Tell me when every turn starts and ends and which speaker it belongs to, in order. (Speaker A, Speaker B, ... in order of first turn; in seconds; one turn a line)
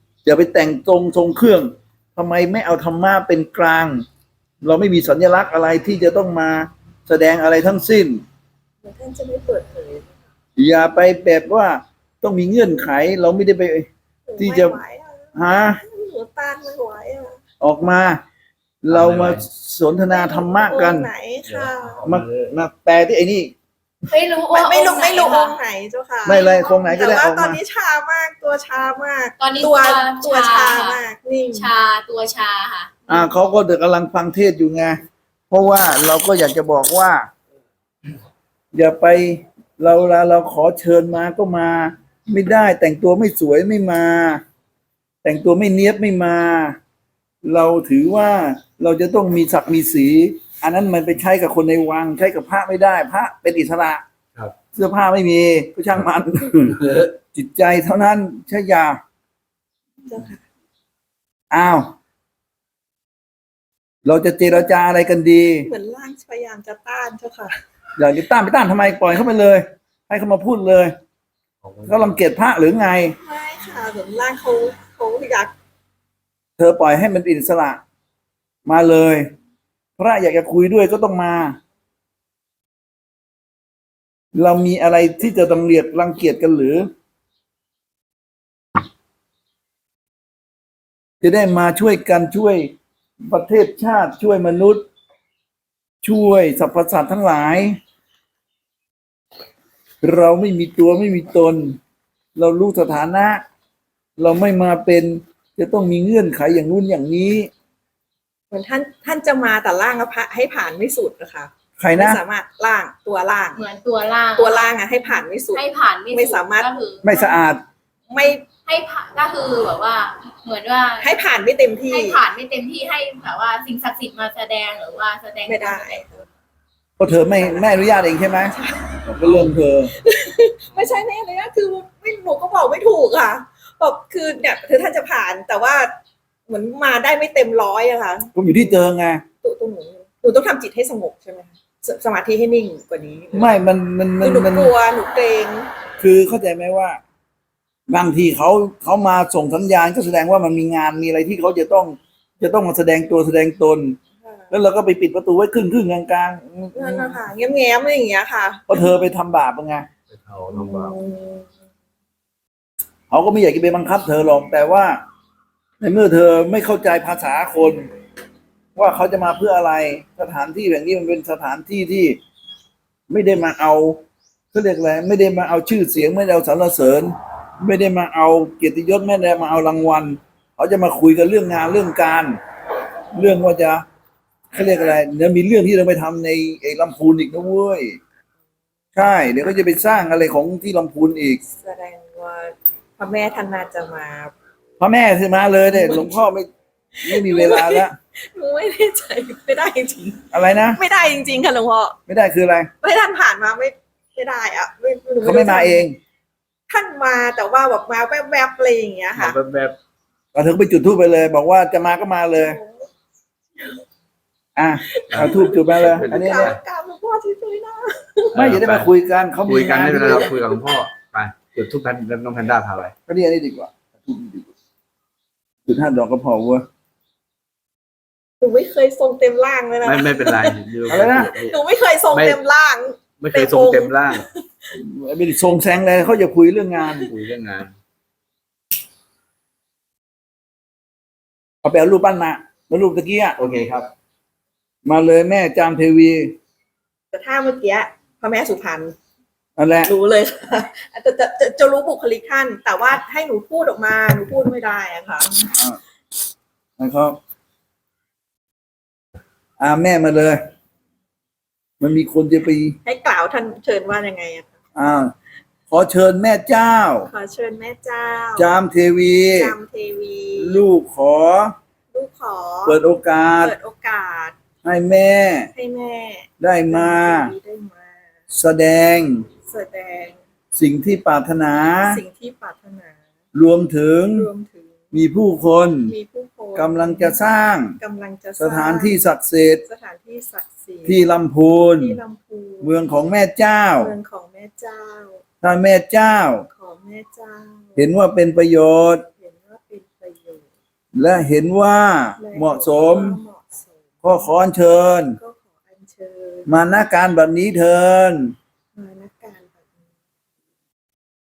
Speaker A: 0.2-4.0
Speaker A: 4.6-8.2
Speaker B: 8.8-10.1
Speaker A: 10.6-14.8
Speaker B: 14.3-17.4
Speaker A: 15.3-15.8
Speaker A: 17.6-18.2
Speaker A: 18.8-21.1
Speaker C: 18.9-19.5
Speaker B: 20.1-22.0
Speaker C: 21.4-22.6
Speaker A: 22.0-23.5
Speaker D: 24.1-25.6
Speaker B: 24.5-31.7
Speaker A: 26.2-27.6
Speaker D: 29.4-31.0
Speaker D: 31.5-33.0
Speaker A: 33.1-37.3
Speaker A: 38.7-44.4
Speaker A: 45.2-46.8
Speaker A: 47.4-54.0
Speaker A: 54.8-59.0
Speaker C: 56.7-57.1
Speaker B: 60.1-60.4
Speaker A: 61.5-62.0
Speaker A: 64.0-65.7
Speaker B: 65.6-67.6
Speaker A: 68.0-70.9
Speaker C: 71.6-72.2
Speaker A: 71.9-73.2
Speaker B: 73.2-75.5
Speaker A: 76.6-77.8
Speaker A: 78.7-79.3
Speaker A: 80.0-81.6
Speaker A: 84.3-86.9
Speaker A: 91.2-94.8
Speaker A: 96.0-97.8
Speaker A: 100.0-101.8
Speaker A: 102.3-103.4
Speaker A: 104.2-107.5
Speaker B: 108.5-113.6
Speaker A: 111.8-112.2
Speaker D: 113.5-117.2
Speaker B: 114.4-116.7
Speaker A: 117.0-117.6
Speaker B: 118.1-118.4
Speaker D: 118.5-121.2
Speaker B: 121.0-122.2
Speaker D: 121.9-126.0
Speaker B: 125.5-126.2
Speaker A: 127.0-128.6
Speaker B: 127.4-127.7
Speaker B: 128.5-129.1
Speaker A: 129.1-129.9
Speaker B: 130.0-135.9
Speaker B: 136.5-138.7
Speaker A: 138.3-139.2
Speaker B: 139.4-143.6
Speaker A: 143.3-144.7
Speaker B: 144.2-145.7
Speaker A: 146.0-147.0
Speaker A: 147.9-154.0
Speaker B: 154.2-154.5
Speaker A: 154.5-157.2
Speaker B: 156.8-158.9
Speaker A: 158.7-159.9
Speaker C: 160.1-161.0
Speaker B: 160.5-161.5
Speaker A: 163.1-165.0
Speaker A: 165.8-167.9
Speaker A: 168.8-172.2
Speaker A: 173.1-182.4
Speaker A: 183.1-183.8
Speaker A: 184.5-188.0
Speaker A: 188.9-191.4
Speaker B: 191.5-194.3
Speaker A: 194.8-196.5
Speaker B: 195.7-196.1
Speaker B: 197.0-202.0
Speaker A: 197.0-197.9
Speaker A: 200.3-200.8
Speaker A: 202.1-202.7
Speaker B: 202.8-205.9
Speaker A: 205.2-206.0
Speaker B: 206.7-209.4
Speaker C: 209.2-209.8
Speaker A: 210.3-212.6
Speaker B: 212.4-212.9
Speaker A: 214.6-216.5
Speaker B: 214.9-218.4
Speaker C: 215.1-216.6
Speaker C: 218.3-218.9
Speaker A: 218.3-220.3
Speaker C: 219.5-222.9
Speaker A: 223.1-224.5
Speaker A: 225.7-226.7
Speaker B: 228.4-230.6
Speaker C: 229.8-231.6
Speaker A: 230.9-231.3
Speaker B: 231.3-234.7
Speaker C: 232.1-232.4
Speaker C: 233.2-234.3
Speaker A: 234.7-237.1
Speaker C: 237.1-237.7
Speaker A: 241.6-243.4
Speaker C: 243.4-243.9
Speaker A: 244.9-246.4
Speaker B: 247.1-248.9
Speaker A: 249.6-249.9
Speaker B: 249.9-255.5
Speaker A: 256.8-257.2
Speaker A: 259.6-260.4
Speaker A: 261.8-262.8
Speaker B: 262.9-264.5
Speaker A: 264.8-265.1
Speaker A: 265.7-267.1
Speaker B: 267.1-268.5
Speaker A: 268.4-269.6
Speaker B: 269.3-270.6
Speaker A: 270.4-271.6
Speaker B: 271.9-272.8
Speaker A: 272.6-273.5
Speaker B: 273.4-274.4
Speaker A: 274.6-275.5
Speaker B: 275.6-277.9
Speaker A: 276.4-277.3
Speaker A: 278.3-279.3
Speaker B: 279.5-280.2
Speaker A: 280.6-282.0
Speaker B: 281.8-283.0
Speaker A: 283.3-284.3
Speaker B: 284.1-284.9
Speaker A: 284.9-285.9
Speaker B: 285.9-287.2
Speaker A: 286.6-287.8
Speaker B: 287.8-289.0
Speaker A: 288.4-289.6
Speaker B: 289.6-291.0
Speaker A: 290.9-292.0
Speaker B: 291.7-292.7
Speaker A: 292.6-293.9
Speaker B: 293.8-295.2
Speaker A: 295.4-296.5
Speaker B: 296.5-297.9
Speaker A: 297.8-299.1
Speaker B: 299.2-300.4
Speaker A: 300.9-303.2
Speaker B: 302.2-304.2
Speaker A: 304.0-305.2
Speaker B: 305.2-306.5
Speaker A: 306.5-308.4
Speaker B: 308.8-309.5